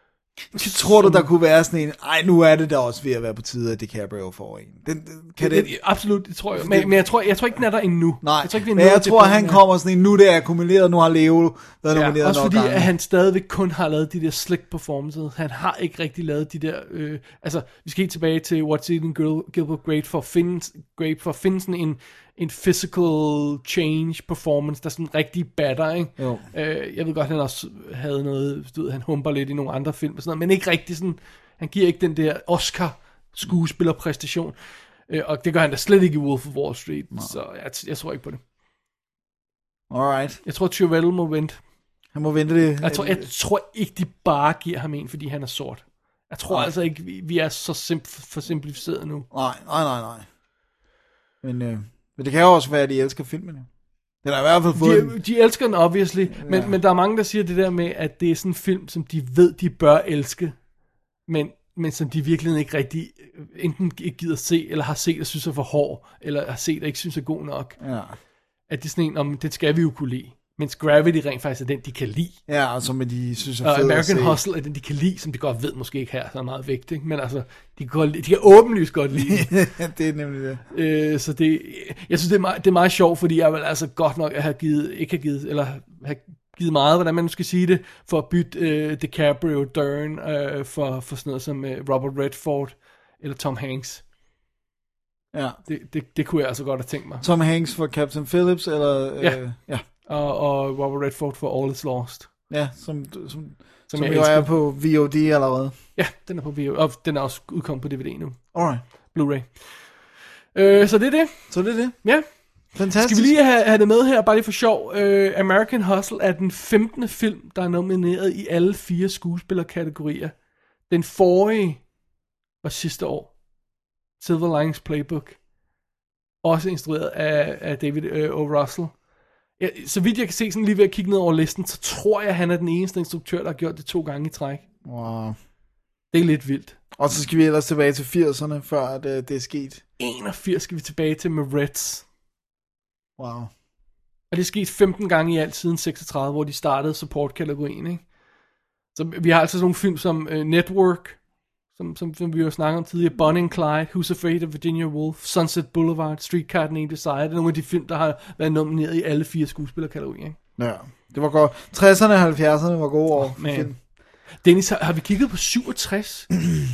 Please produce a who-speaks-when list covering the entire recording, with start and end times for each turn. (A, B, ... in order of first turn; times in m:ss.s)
0:00.5-0:05.8 A
0:00.5-0:01.3 B
0:05.4-0:09.6 B
0:06.5-0:07.1 A
0:08.2-0:12.9 A
0:11.9-0:38.4 B
0:26.2-0:26.5 A
0:39.9-0:40.4 A
0:40.4-0:41.6 B
0:42.1-0:43.3 A
0:42.8-0:49.3 B
0:49.3-0:50.3 A
0:51.4-0:53.7 A
0:54.2-0:55.2 A
0:54.7-1:00.6 B
0:56.3-0:56.8 A
1:01.3-1:07.8 B
1:07.8-1:08.2 A
1:08.7-1:12.4 B
1:12.5-1:14.4 A
1:13.6-1:19.5 B
1:19.1-1:20.6 A
1:20.7-1:34.0 B
1:35.3-1:35.6 A
1:35.6-1:37.2 B
1:37.2-1:39.8 A
1:39.2-1:42.3 B
1:42.5-1:45.8 A
1:43.9-1:44.5 B
1:46.0-2:00.4 B
1:48.5-1:48.8 A
1:51.5-1:53.4 A
2:00.9-2:01.9 B
2:02.6-2:03.3 B
2:04.2-2:05.4 B
2:06.4-2:09.0 B
2:09.6-2:14.6 B
2:14.8-2:15.4 A
2:16.1-2:16.8 B
2:17.0-2:19.8 A
2:20.0-2:22.0 B
2:23.2-2:23.5 A
2:24.3-2:28.0 B
2:29.0-2:31.2 B
2:31.8-2:40.4 B
2:40.6-2:43.8 A
2:43.2-2:46.3 B